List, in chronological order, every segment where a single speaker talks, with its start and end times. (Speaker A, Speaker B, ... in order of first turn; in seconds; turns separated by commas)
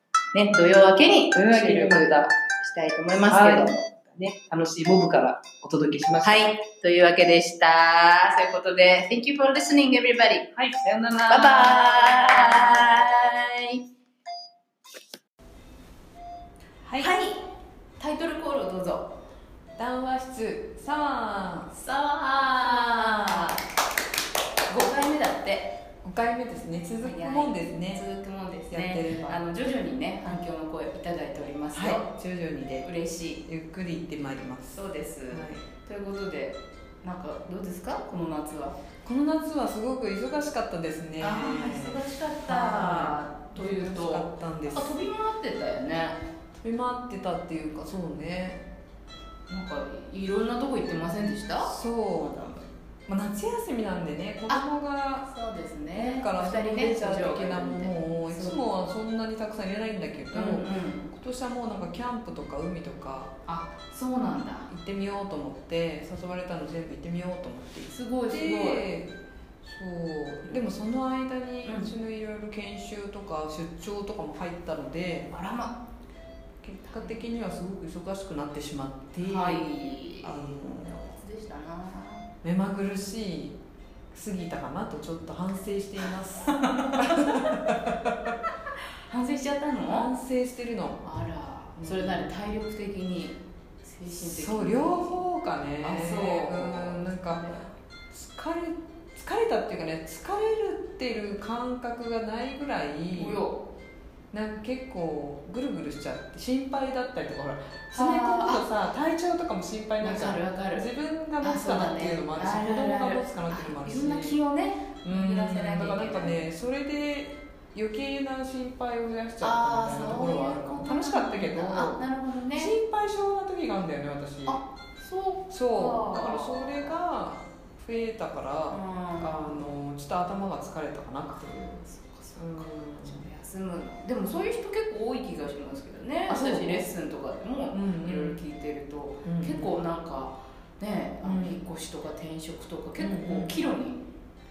Speaker A: 0.3-3.8, Speaker B: 1.3-2.3, Speaker B: 3.3-6.5, Speaker A: 6.2-10.5, Speaker B: 10.5-12.6, Speaker A: 11.3-13.8, Speaker C: 16.8-17.1, Speaker A: 17.0-17.4, Speaker A: 18.0-19.1, Speaker C: 19.8-21.7, Speaker A: 21.7-23.6, Speaker C: 22.5-23.5, Speaker A: 24.7-25.7, Speaker C: 26.0-28.0, Speaker A: 27.0-32.1, Speaker C: 28.7-29.4, Speaker C: 31.7-32.9, Speaker A: 32.8-33.4, Speaker C: 33.4-35.7, Speaker A: 34.7-38.8, Speaker C: 39.0-45.0, Speaker A: 41.2-46.2, Speaker C: 46.6-48.6, Speaker A: 49.5-51.7, Speaker C: 51.6-55.3, Speaker A: 55.2-58.6, Speaker C: 55.9-63.3, Speaker A: 60.3-61.1, Speaker A: 63.5-64.7, Speaker C: 64.7-69.1, Speaker A: 67.9-68.8, Speaker C: 69.6-75.3, Speaker A: 71.6-71.9, Speaker A: 75.3-75.8, Speaker C: 76.6-79.7, Speaker A: 76.8-77.2, Speaker A: 79.2-82.3, Speaker C: 80.2-81.2, Speaker C: 82.4-83.6, Speaker C: 84.1-88.1, Speaker A: 86.5-87.5, Speaker A: 89.1-90.1, Speaker C: 89.9-91.2, Speaker A: 91.0-95.2, Speaker C: 91.8-92.3, Speaker C: 94.2-103.4, Speaker A: 95.8-97.7, Speaker A: 103.1-103.6, Speaker C: 104.3-114.4, Speaker A: 107.9-108.6, Speaker A: 110.0-110.8, Speaker A: 111.4-116.4, Speaker C: 115.0-122.0, Speaker A: 119.4-122.7, Speaker C: 122.5-124.6, Speaker A: 124.5-127.0, Speaker C: 125.5-133.3, Speaker A: 128.7-129.7, Speaker A: 131.8-144.0, Speaker C: 136.3-136.9, Speaker C: 137.7-138.4, Speaker C: 139.2-139.7, Speaker C: 141.2-141.6, Speaker C: 143.0-143.6